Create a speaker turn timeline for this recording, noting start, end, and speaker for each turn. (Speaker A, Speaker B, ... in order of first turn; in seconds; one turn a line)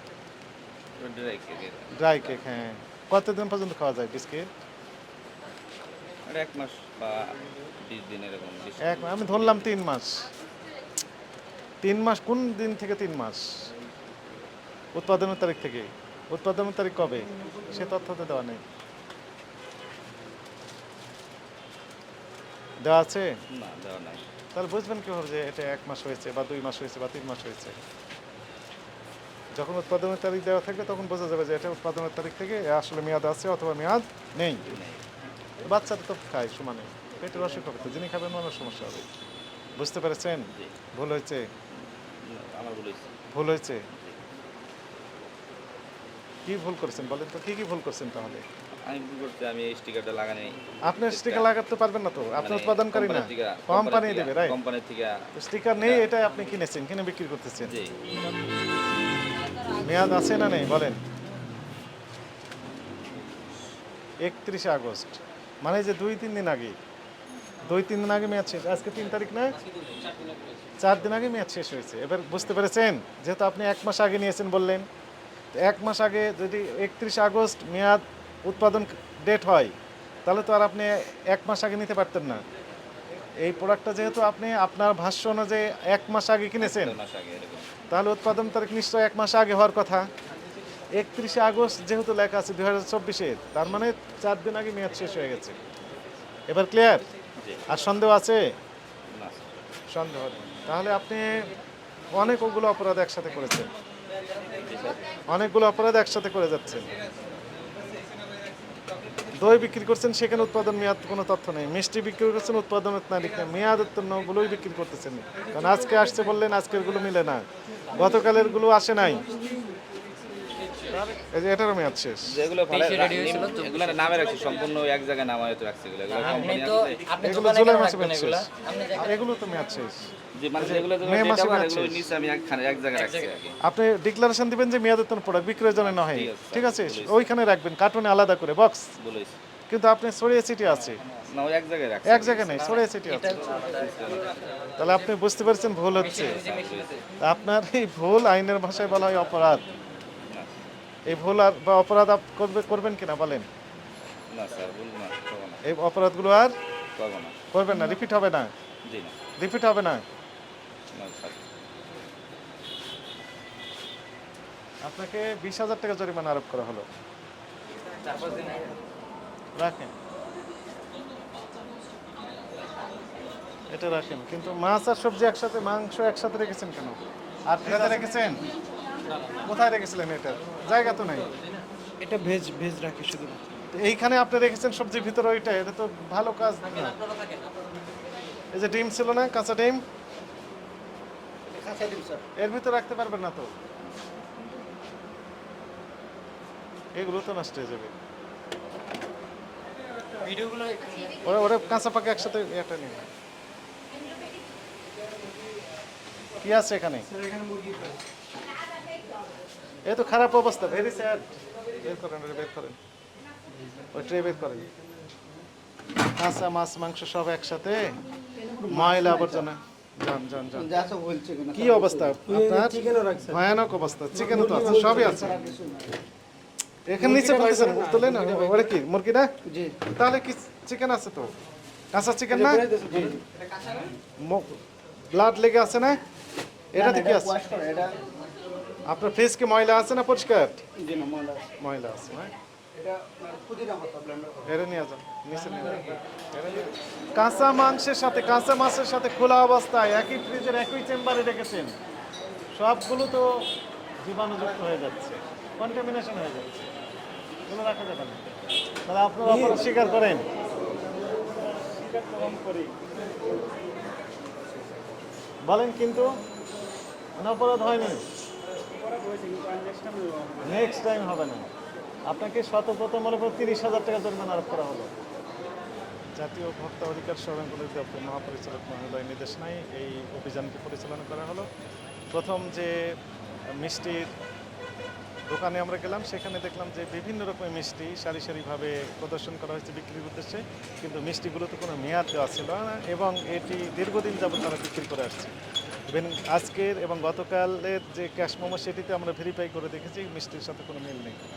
Speaker A: 1.0-2.5
Speaker B: 1.9-4.5
Speaker A: 6.2-9.8
Speaker B: 8.8-10.3
Speaker B: 11.8-13.7
Speaker B: 14.9-18.6
Speaker B: 22.8-23.4
Speaker A: 23.5-24.3
Speaker B: 24.5-27.8
Speaker B: 29.5-34.7
Speaker A: 34.6-35.0
Speaker B: 35.6-39.1
Speaker B: 39.8-41.5
Speaker A: 40.5-40.8
Speaker A: 41.8-43.1
Speaker B: 43.3-43.9
Speaker A: 43.9-44.2
Speaker B: 46.5-48.4
Speaker A: 48.7-51.5
Speaker B: 50.8-54.6
Speaker A: 52.4-55.3
Speaker B: 55.3-57.7
Speaker A: 55.8-56.1
Speaker A: 57.7-58.0
Speaker B: 59.8-61.0
Speaker B: 64.2-66.8
Speaker B: 67.6-69.6
Speaker C: 69.6-70.7
Speaker B: 70.8-74.9
Speaker B: 75.5-82.4
Speaker B: 83.4-87.0
Speaker A: 86.6-87.7
Speaker B: 87.9-90.1
Speaker B: 90.9-95.6
Speaker B: 96.5-97.1
Speaker A: 97.4-97.7
Speaker B: 97.7-98.4
Speaker A: 99.1-99.6
Speaker B: 99.9-101.5
Speaker B: 102.1-103.7
Speaker A: 104.6-105.0
Speaker B: 105.3-107.0
Speaker B: 109.3-119.3
Speaker D: 119.4-119.7
Speaker B: 121.0-122.4
Speaker A: 122.3-127.1
Speaker C: 122.8-123.7
Speaker C: 126.3-129.0
Speaker B: 127.2-132.0
Speaker A: 130.3-133.6
Speaker B: 133.6-138.9
Speaker A: 135.5-137.3
Speaker A: 139.0-139.4
Speaker B: 139.7-141.0
Speaker A: 141.2-144.7
Speaker B: 142.1-143.5
Speaker B: 144.8-146.4
Speaker C: 146.0-146.8
Speaker A: 146.1-147.0
Speaker B: 147.2-149.7
Speaker A: 150.3-150.6
Speaker B: 151.1-153.5
Speaker A: 154.3-155.6
Speaker B: 155.7-156.6
Speaker A: 156.9-157.3
Speaker B: 157.5-158.5
Speaker A: 158.8-159.2
Speaker B: 159.4-160.0
Speaker A: 160.9-161.4
Speaker B: 164.8-166.8
Speaker C: 168.1-168.6
Speaker B: 169.6-169.9
Speaker B: 173.7-178.5
Speaker B: 179.4-181.3
Speaker D: 182.0-183.4
Speaker B: 183.7-187.0
Speaker B: 188.5-189.8
Speaker D: 191.5-192.2
Speaker B: 192.4-193.5
Speaker B: 196.9-197.9
Speaker C: 200.2-201.0
Speaker B: 201.2-203.1
Speaker B: 206.4-207.1
Speaker D: 207.3-207.9
Speaker B: 209.9-212.8
Speaker B: 213.9-214.7
Speaker B: 216.2-218.0
Speaker D: 218.4-219.5
Speaker B: 218.6-220.8
Speaker D: 220.5-223.4
Speaker B: 221.5-225.4
Speaker D: 224.1-226.0
Speaker B: 226.9-229.3
Speaker D: 226.9-228.7
Speaker D: 229.4-229.8
Speaker B: 229.9-231.3
Speaker B: 231.9-232.7
Speaker D: 232.3-233.2
Speaker B: 234.2-234.6
Speaker B: 235.1-236.0
Speaker B: 236.7-237.4
Speaker D: 236.8-238.0
Speaker B: 238.9-240.6
Speaker D: 240.8-241.5
Speaker B: 241.6-242.3
Speaker D: 242.7-244.4
Speaker B: 244.5-251.7
Speaker B: 252.5-253.4
Speaker B: 254.0-256.7
Speaker B: 257.5-258.2
Speaker B: 258.9-260.2
Speaker D: 259.3-259.7
Speaker D: 261.5-262.8
Speaker B: 265.4-266.1
Speaker B: 267.2-268.0
Speaker D: 268.9-270.4
Speaker B: 270.4-271.5
Speaker B: 272.1-274.9
Speaker B: 276.1-281.5
Speaker B: 282.1-282.9
Speaker B: 283.6-284.1
Speaker B: 285.3-295.3
Speaker B: 295.9-301.2